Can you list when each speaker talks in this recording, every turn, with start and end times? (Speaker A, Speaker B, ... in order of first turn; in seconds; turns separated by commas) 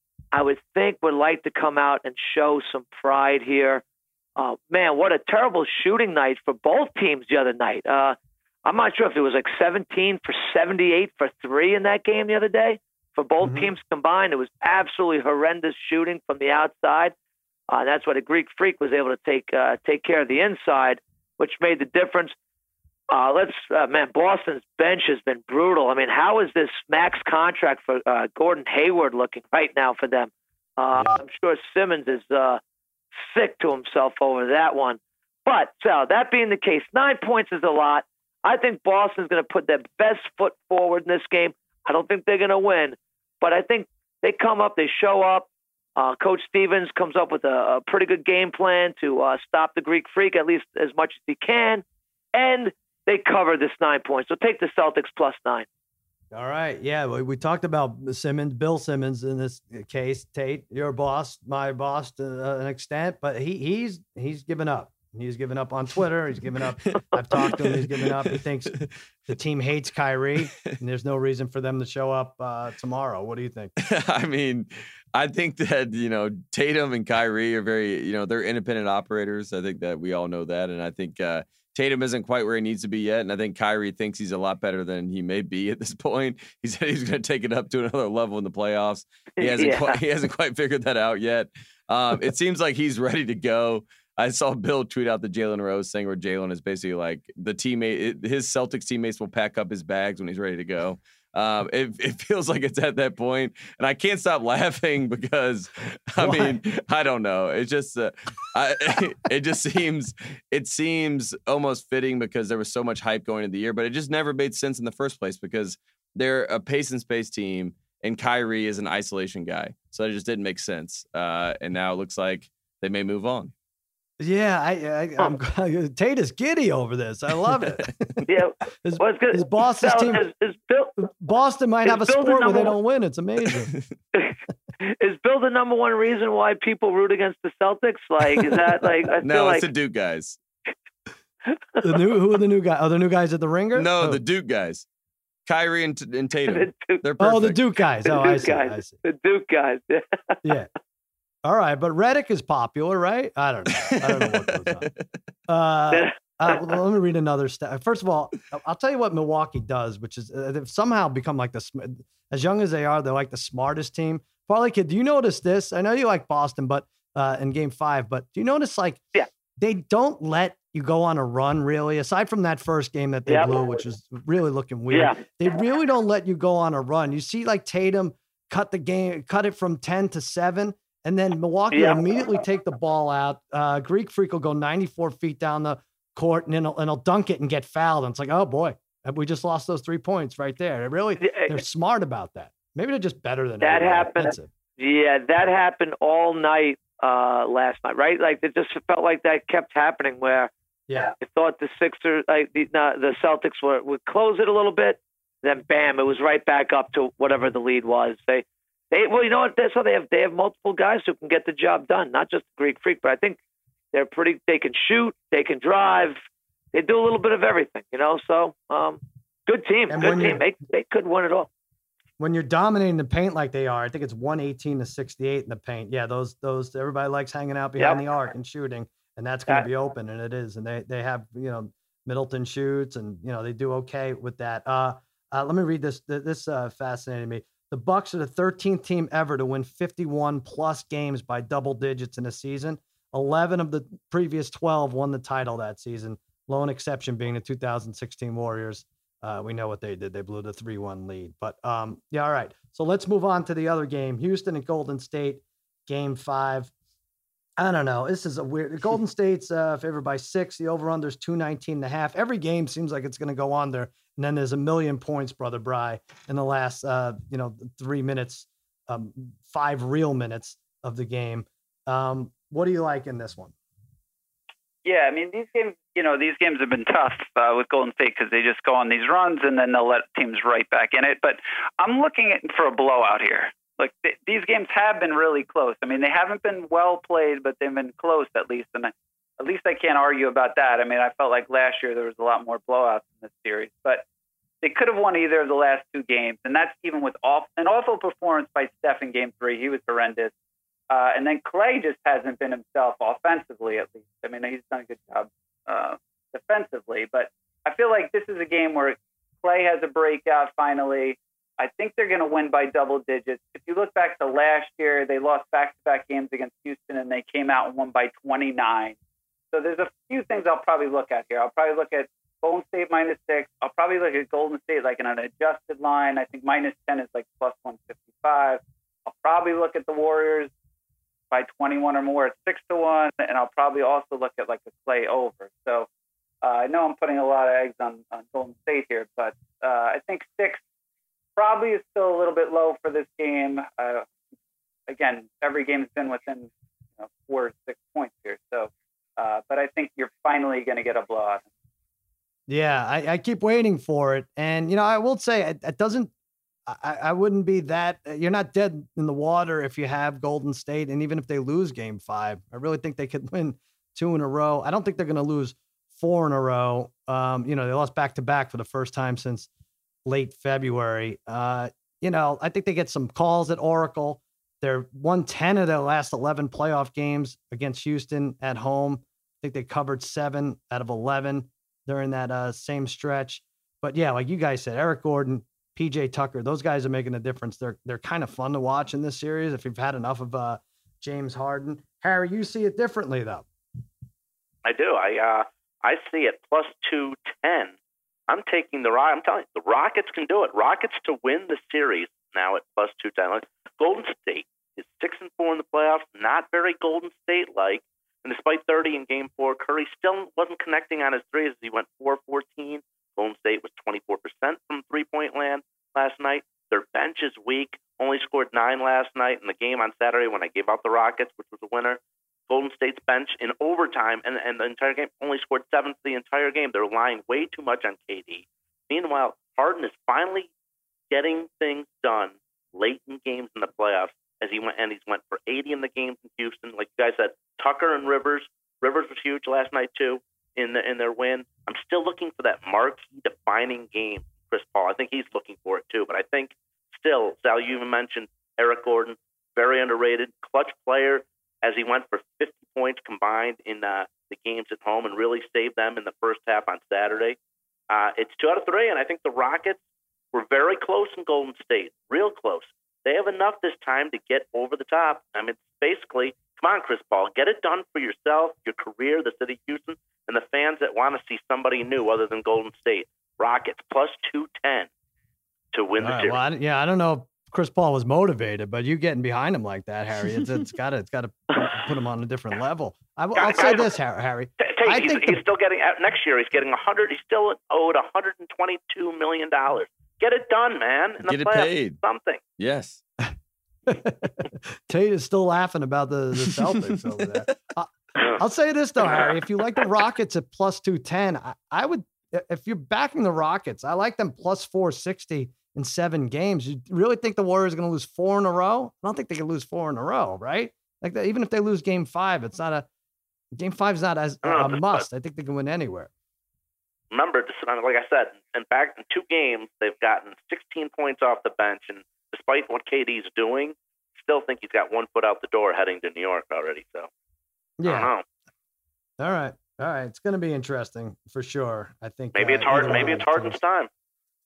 Speaker A: 0.3-3.8, Speaker A: 4.4-17.1, Speaker B: 13.4-13.7, Speaker A: 17.7-22.3, Speaker A: 23.1-32.6, Speaker B: 30.9-31.2, Speaker A: 33.1-51.8, Speaker A: 52.3-55.6, Speaker B: 56.3-73.7, Speaker C: 73.8-123.5, Speaker A: 89.4-90.0, Speaker B: 106.2-106.6, Speaker B: 124.2-128.3, Speaker A: 128.3-131.0, Speaker B: 128.8-130.3, Speaker B: 131.0-133.7, Speaker A: 131.8-132.7, Speaker A: 134.1-139.7, Speaker C: 139.2-140.4, Speaker A: 141.5-141.8, Speaker B: 141.8-144.2, Speaker C: 143.7-144.8, Speaker C: 145.4-147.6, Speaker A: 146.4-147.1, Speaker B: 147.2-149.0, Speaker A: 148.0-150.5, Speaker B: 150.4-150.7, Speaker B: 151.4-154.9, Speaker C: 153.8-154.8, Speaker B: 155.5-169.0, Speaker A: 155.9-156.6, Speaker B: 169.6-194.5, Speaker A: 173.2-173.6, Speaker A: 174.9-175.2, Speaker A: 181.7-182.0, Speaker A: 191.2-191.6, Speaker A: 193.6-200.5, Speaker B: 200.9-201.1, Speaker A: 201.1-213.4, Speaker A: 213.9-216.2, Speaker A: 216.7-221.5, Speaker B: 219.9-220.4, Speaker B: 222.2-256.7, Speaker B: 257.6-273.5, Speaker D: 274.8-294.0, Speaker D: 294.6-300.3, Speaker D: 300.9-318.9, Speaker D: 319.5-330.5, Speaker D: 331.3-335.9, Speaker D: 336.4-340.6, Speaker D: 341.4-344.1, Speaker D: 344.9-351.4, Speaker B: 352.5-356.1, Speaker B: 356.7-369.5, Speaker B: 370.1-393.4, Speaker E: 394.6-397.8, Speaker E: 398.3-430.5, Speaker E: 431.1-457.4, Speaker E: 457.9-459.8, Speaker E: 460.3-474.9, Speaker E: 475.7-476.4, Speaker B: 476.0-485.4, Speaker E: 483.4-483.9, Speaker E: 484.6-492.4, Speaker C: 491.2-492.0, Speaker C: 492.6-493.0, Speaker B: 493.9-512.9, Speaker B: 513.5-516.1, Speaker E: 514.4-515.0, Speaker E: 517.1-527.1, Speaker B: 527.8-528.1, Speaker E: 527.8-528.2, Speaker B: 529.2-533.6, Speaker E: 532.3-533.9